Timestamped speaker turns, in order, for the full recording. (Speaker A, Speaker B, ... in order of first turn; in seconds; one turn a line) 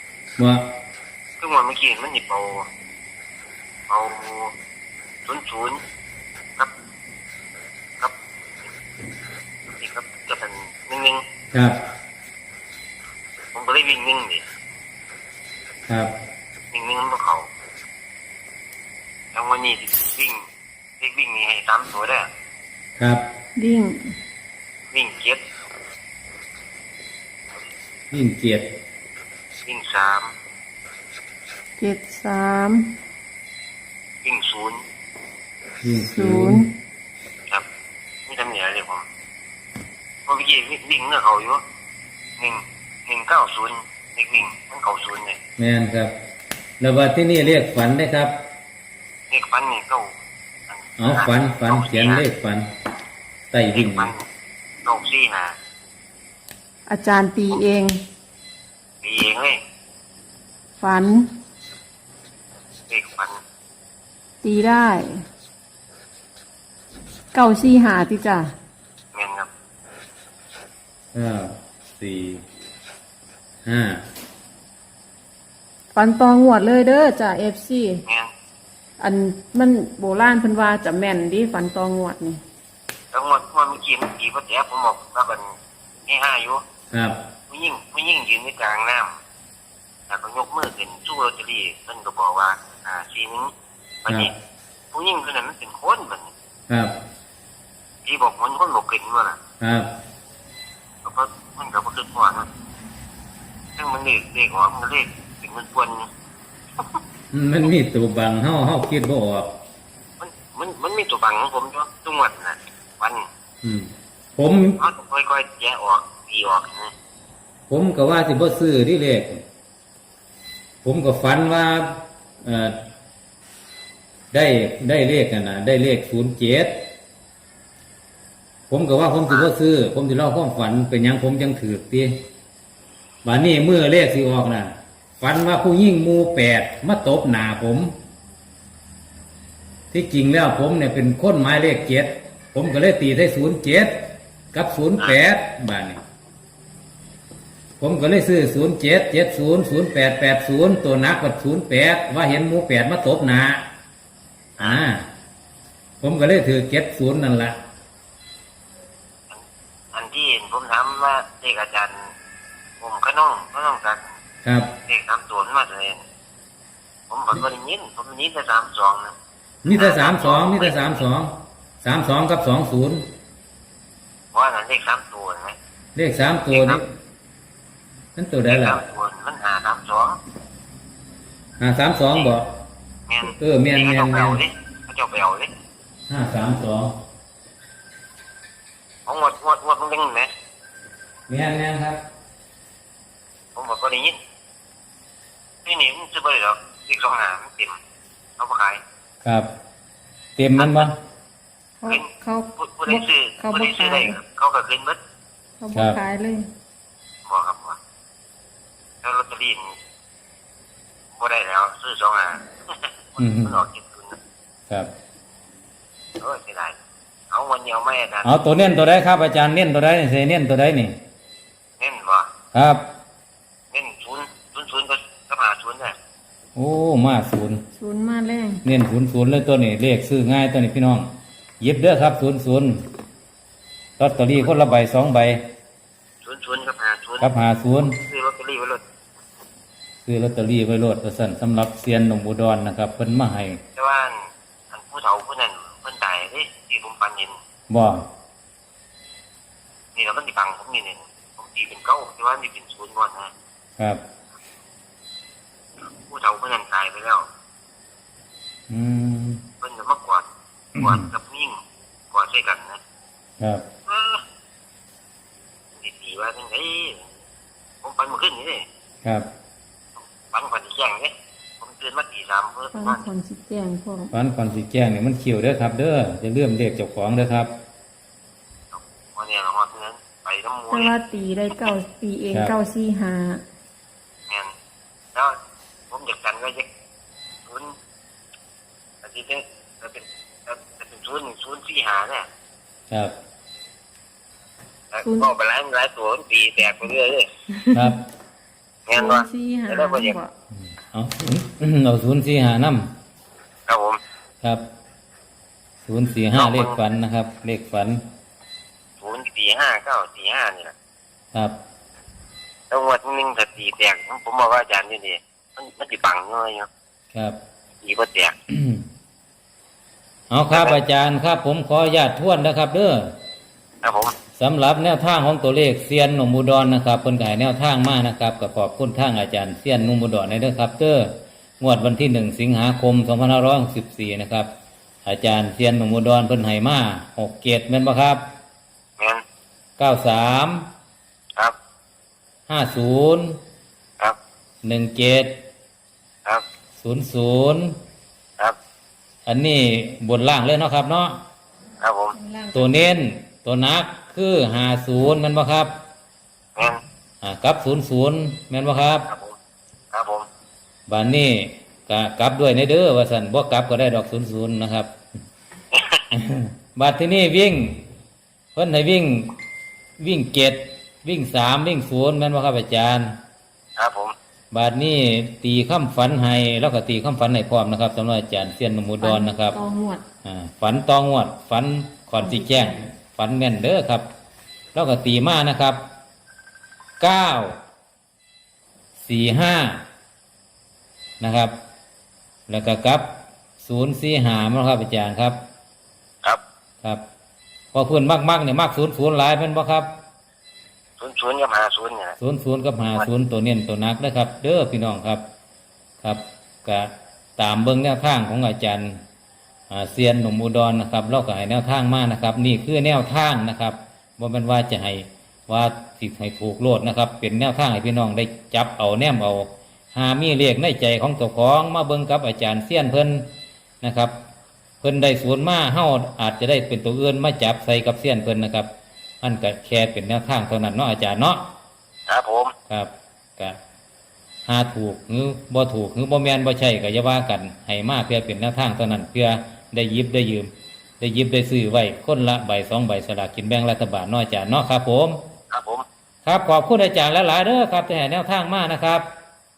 Speaker A: 0.4-0.7
Speaker B: 1.4-2.7
Speaker B: 3.9-4.5
Speaker B: 5.2-5.8
Speaker B: 9.8-11.2
Speaker A: 11.5-11.8
Speaker B: 13.5-14.4
Speaker A: 15.9-16.1
Speaker B: 16.7-17.5
Speaker B: 19.3-20.5
Speaker B: 21.0-22.3
Speaker A: 23.0-23.2
Speaker C: 23.6-24.1
Speaker B: 24.9-25.4
Speaker A: 28.1-28.7
Speaker B: 29.6-30.3
Speaker C: 31.8-32.9
Speaker B: 34.2-34.8
Speaker A: 35.8-36.6
Speaker C: 35.9-36.7
Speaker B: 38.3-39.0
Speaker B: 40.3-41.6
Speaker B: 42.4-45.4
Speaker A: 45.6-46.1
Speaker A: 46.8-48.4
Speaker B: 49.3-50.1
Speaker B: 50.7-52.3
Speaker A: 51.0-52.7
Speaker A: 53.5-54.1
Speaker B: 53.7-54.3
Speaker B: 54.8-55.5
Speaker C: 56.9-57.9
Speaker B: 59.0-59.6
Speaker C: 60.8-61.2
Speaker B: 62.9-63.4
Speaker C: 64.4-65.2
Speaker C: 67.3-68.5
Speaker B: 69.1-69.5
Speaker A: 71.1-72.4
Speaker A: 73.7-74.0
Speaker C: 75.9-78.0
Speaker C: 79.0-82.4
Speaker B: 83.1-85.5
Speaker B: 86.1-86.6
Speaker A: 86.9-87.2
Speaker B: 87.5-89.2
Speaker B: 90.1-93.5
Speaker B: 94.0-94.3
Speaker B: 94.9-96.3
Speaker A: 96.7-97.0
Speaker B: 98.0-99.4
Speaker A: 99.6-99.9
Speaker B: 101.0-102.5
Speaker B: 103.8-106.1
Speaker A: 107.3-109.5
Speaker B: 110.2-113.3
Speaker A: 113.6-114.8
Speaker B: 114.8-116.9
Speaker A: 117.7-119.4
Speaker A: 120.8-122.8
Speaker A: 124.3-126.8
Speaker A: 128.7-132.2
Speaker A: 133.2-137.9
Speaker A: 139.9-146.0
Speaker A: 147.8-153.7
Speaker A: 154.6-155.0
Speaker A: 156.0-157.6
Speaker B: 159.3-162.1
Speaker B: 162.8-164.2
Speaker A: 164.4-164.7
Speaker B: 164.9-166.0
Speaker B: 167.1-169.2
Speaker A: 169.7-173.0
Speaker B: 169.7-171.0
Speaker B: 174.3-175.6
Speaker A: 175.9-176.8
Speaker B: 176.5-176.8
Speaker A: 178.2-178.8
Speaker B: 178.5-180.2
Speaker A: 181.6-182.5
Speaker B: 183.1-185.5
Speaker A: 183.2-184.4
Speaker A: 186.1-186.9
Speaker B: 189.1-190.3
Speaker A: 191.3-192.0
Speaker B: 193.5-194.2
Speaker B: 195.7-197.8
Speaker B: 198.4-198.8
Speaker A: 199.2-199.5
Speaker A: 200.3-200.9
Speaker B: 200.6-200.9
Speaker C: 201.8-204.2
Speaker B: 201.8-205.0
Speaker C: 205.6-206.5
Speaker A: 205.7-206.0
Speaker B: 207.3-207.8
Speaker B: 209.0-209.7
Speaker B: 211.2-214.2
Speaker A: 213.2-213.6
Speaker B: 216.2-216.8
Speaker B: 217.3-218.3
Speaker A: 218.2-221.0
Speaker B: 221.8-222.3
Speaker A: 222.5-222.8
Speaker B: 223.7-225.9
Speaker A: 226.6-227.6
Speaker C: 227.7-228.6
Speaker A: 228.6-231.1
Speaker A: 231.6-232.8
Speaker A: 234.0-235.5
Speaker B: 234.4-234.7
Speaker B: 236.2-237.3
Speaker A: 237.2-238.0
Speaker B: 237.9-238.8
Speaker A: 240.0-243.6
Speaker B: 243.8-247.4
Speaker A: 247.7-248.1
Speaker B: 249.9-253.3
Speaker B: 256.1-257.3
Speaker A: 258.7-259.4
Speaker B: 259.6-260.2
Speaker A: 260.8-261.1
Speaker B: 260.8-261.6
Speaker B: 262.1-262.8
Speaker A: 263.4-263.7
Speaker B: 263.9-264.2
Speaker B: 265.8-267.1
Speaker B: 267.8-268.6
Speaker A: 269.0-269.3
Speaker B: 270.0-273.1
Speaker C: 272.7-274.1
Speaker A: 274.1-277.5
Speaker B: 278.7-280.9
Speaker C: 280.7-283.4
Speaker B: 285.9-286.6
Speaker B: 287.5-287.7
Speaker B: 289.0-292.3
Speaker A: 292.9-293.1
Speaker B: 294.9-297.3
Speaker C: 295.0-295.3
Speaker C: 297.5-297.9
Speaker B: 298.9-300.2
Speaker C: 298.9-300.3
Speaker A: 300.7-302.9
Speaker B: 303.7-304.0
Speaker A: 305.9-308.0
Speaker B: 306.4-306.8
Speaker B: 309.0-310.7
Speaker A: 311.3-311.6
Speaker B: 312.7-316.7
Speaker A: 317.1-317.4
Speaker B: 317.8-318.4
Speaker A: 318.5-318.8
Speaker A: 320.3-323.1
Speaker B: 320.5-320.8
Speaker B: 323.8-324.1
Speaker A: 324.4-334.5
Speaker A: 335.1-338.2
Speaker A: 339.8-340.7
Speaker A: 342.5-343.4
Speaker A: 344.6-345.4
Speaker A: 346.8-347.8
Speaker A: 349.2-351.2
Speaker B: 351.8-352.1
Speaker C: 352.1-352.8
Speaker A: 352.5-355.7
Speaker A: 357.2-359.1
Speaker B: 359.1-359.4
Speaker B: 359.9-360.3
Speaker A: 360.9-364.9
Speaker B: 365.7-366.0
Speaker A: 366.1-367.9
Speaker A: 368.6-369.3
Speaker A: 370.0-373.1
Speaker B: 373.8-374.1
Speaker A: 374.5-379.6
Speaker C: 379.0-380.1
Speaker A: 380.2-384.1
Speaker C: 382.2-382.8
Speaker A: 384.8-385.8
Speaker A: 387.0-387.6
Speaker A: 389.0-389.8
Speaker A: 391.2-391.6
Speaker A: 392.5-395.4
Speaker A: 397.7-399.9
Speaker B: 401.0-402.2
Speaker A: 402.2-405.2
Speaker A: 406.0-409.0
Speaker A: 409.7-423.3
Speaker A: 423.8-424.1
Speaker A: 424.8-428.7
Speaker A: 429.2-431.5
Speaker B: 432.1-432.5
Speaker A: 432.7-433.6
Speaker A: 434.5-445.2
Speaker B: 445.5-445.9
Speaker A: 446.2-449.1